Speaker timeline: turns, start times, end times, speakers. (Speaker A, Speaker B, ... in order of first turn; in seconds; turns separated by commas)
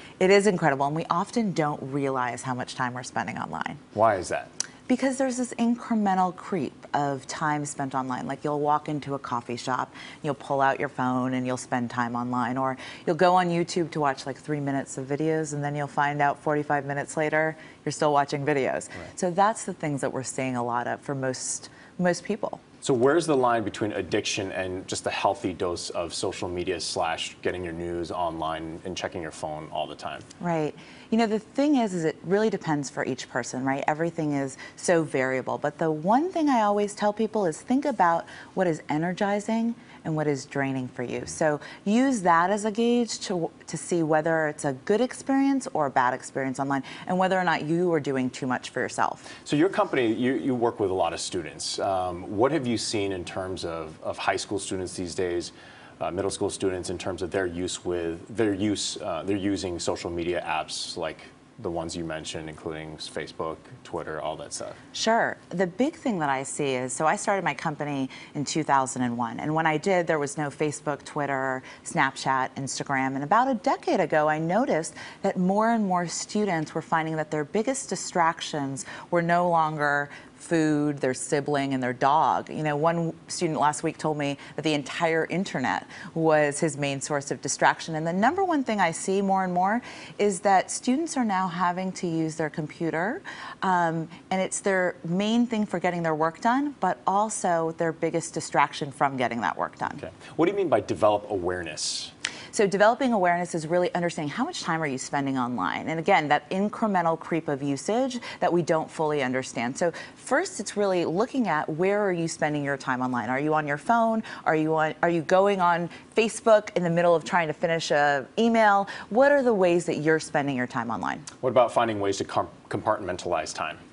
Speaker A: 0.2-3.8, Speaker B: 3.9-4.5, Speaker A: 4.9-22.6, Speaker B: 22.8-30.2, Speaker A: 30.4-49.3, Speaker B: 49.4-64.8, Speaker A: 64.9-100.0, Speaker B: 100.0-102.1, Speaker A: 102.5-121.3, Speaker B: 121.4-123.8